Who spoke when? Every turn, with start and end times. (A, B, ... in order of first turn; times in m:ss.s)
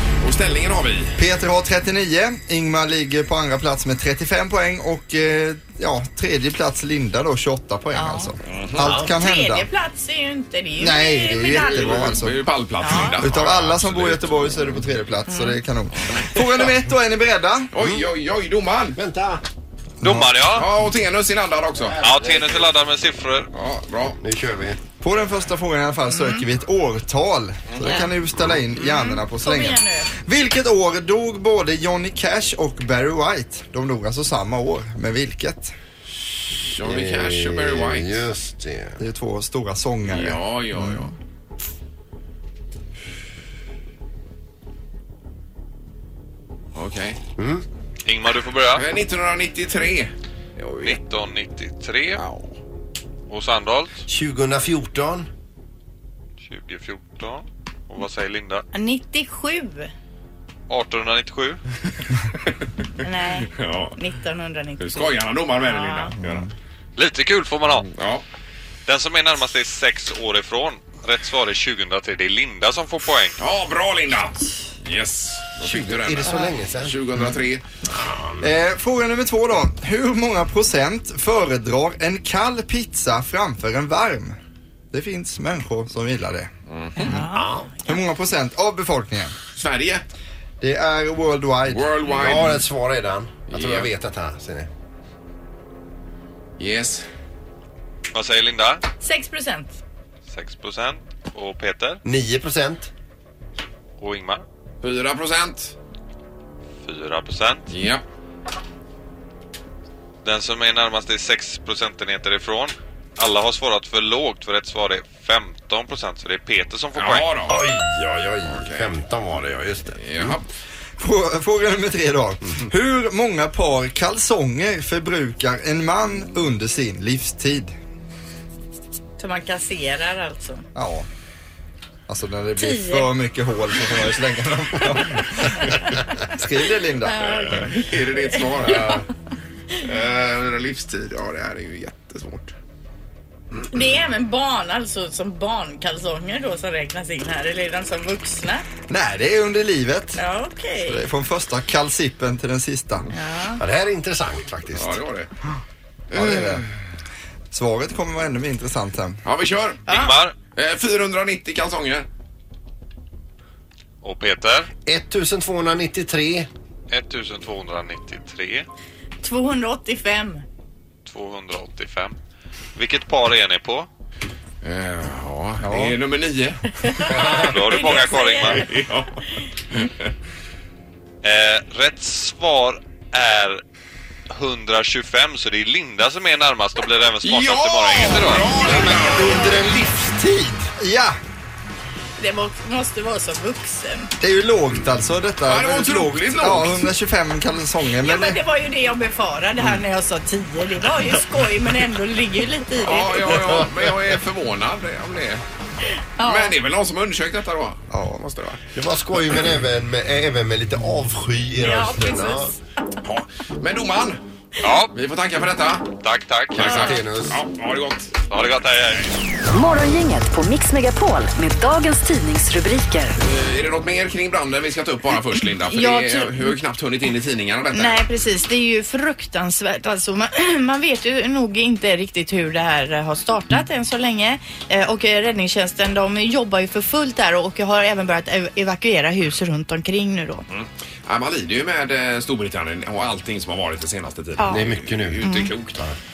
0:00.2-0:01.2 A
0:01.2-0:09.7 B
0:07.9-0:08.3 C
0:08.5-0:08.8 A
0:08.8-0:09.1 D
0:09.0-0:12.2 C
0:10.8-0:12.4 B
0:11.6-0:14.3 A
0:12.8-0:13.2 C
0:13.2-0:17.7 B
0:15.3-0:15.6 C
0:16.1-0:16.4 A
0:17.7-0:19.0 A
0:17.8-0:18.0 D
0:19.0-0:19.4 D
0:20.0-0:20.7 E
0:20.0-0:20.3 B
0:20.5-0:22.0 A
0:21.9-0:22.6 D
0:22.0-0:23.5 E
0:23.5-0:24.2 A
0:24.2-0:24.8 D
0:25.0-0:35.7 B
0:26.1-0:26.4 C
0:28.8-0:30.1 C
0:36.7-0:38.2 A
0:36.8-0:39.0 D
0:39.0-0:40.4 B
0:40.0-0:41.1 A
0:46.7-0:47.2 A
0:47.4-0:47.6 D
0:48.0-0:48.8 E
0:48.7-0:51.0 A
0:50.8-0:52.2 E
0:52.1-0:52.6 A
0:53.3-0:54.0 E
0:54.1-0:55.3 D
0:56.4-0:58.6 E
0:58.7-0:59.9 C
1:00.7-1:01.6 E
1:03.0-1:05.1 C
1:03.4-1:04.0 A
1:04.8-1:06.5 A
1:05.6-1:06.1 C
1:07.0-1:07.9 E
1:07.9-1:08.2 A
1:08.9-1:13.4 E
1:13.4-1:17.6 A
1:15.6-1:17.0 D
1:17.9-1:18.4 D
1:18.4-1:24.4 B
1:24.9-1:26.5 B
1:26.7-1:27.1 A
1:27.0-1:28.0 C
1:27.0-1:27.3 B
1:27.3-1:27.7 D
1:27.8-1:29.4 B
1:29.5-1:30.0 A
1:30.6-1:32.0 B
1:31.7-1:32.6 A
1:32.1-1:34.7 D
1:33.5-1:33.9 A
1:36.6-1:37.0 A
1:38.1-1:38.8 E
1:39.0-1:39.8 C
1:40.3-1:42.0 E
1:42.0-1:42.9 D
1:44.0-1:44.4 E
1:44.8-1:45.7 A
1:46.8-1:47.7 E
1:47.7-1:48.0 A
1:50.2-1:57.4 E
1:56.9-1:57.6 A
1:57.5-2:00.4 D
1:58.5-1:58.9 A
2:00.0-2:00.5 A
2:01.0-2:07.7 B
2:09.2-2:10.6 C
2:10.7-2:11.1 B
2:12.1-2:17.5 B
2:12.6-2:13.1 C
2:15.5-2:16.0 C
2:17.0-2:18.9 C
2:17.2-2:19.1 A
2:19.8-2:22.5 A
2:23.7-2:28.6 C
2:28.9-2:30.2 B
2:30.2-2:31.0 C
2:30.9-2:33.1 B
2:33.1-2:33.6 C
2:33.6-2:35.0 D
2:34.7-2:35.3 A
2:36.1-2:36.6 B
2:36.1-2:36.7 A
2:37.5-2:39.2 B
2:39.2-2:42.1 A
2:39.9-2:40.1 C
2:39.9-2:40.3 E
2:44.0-2:44.7 E
2:44.8-2:46.5 D
2:46.9-2:48.6 E
2:49.2-2:50.4 C
2:51.0-2:52.1 E
2:52.8-2:53.9 E
2:54.6-2:56.7 A
2:55.6-2:55.9 B
2:56.8-2:58.7 C
2:57.1-2:58.7 E
2:57.2-2:57.5 D
2:58.4-2:59.2 A
3:01.2-3:03.6 E
3:04.3-3:08.5 E
3:07.2-3:09.3 A
3:08.5-3:10.7 D
3:08.6-3:09.6 C
3:10.8-3:11.2 B
3:12.2-3:14.1 C
3:14.2-3:18.4 B
3:15.4-3:16.9 A
3:18.0-3:23.4 C
3:22.8-3:25.4 A
3:23.3-3:23.7 D
3:26.2-3:26.5 C
3:26.2-3:28.6 A
3:27.9-3:28.2 B
3:28.7-3:32.5 D
3:31.6-3:32.6 C
3:33.0-3:34.2 A
3:34.6-3:34.9 E
3:34.9-3:35.9 A
3:36.0-3:36.9 E
3:36.5-3:38.2 A
3:36.6-3:37.4 D
3:38.3-3:39.1 E
3:39.5-3:43.2 F
3:43.2-3:48.0 A
3:45.6-3:46.5 C
3:47.7-4:00.4 C
4:00.5-4:05.8 A
4:04.5-4:05.3 D
4:05.2-4:05.5 C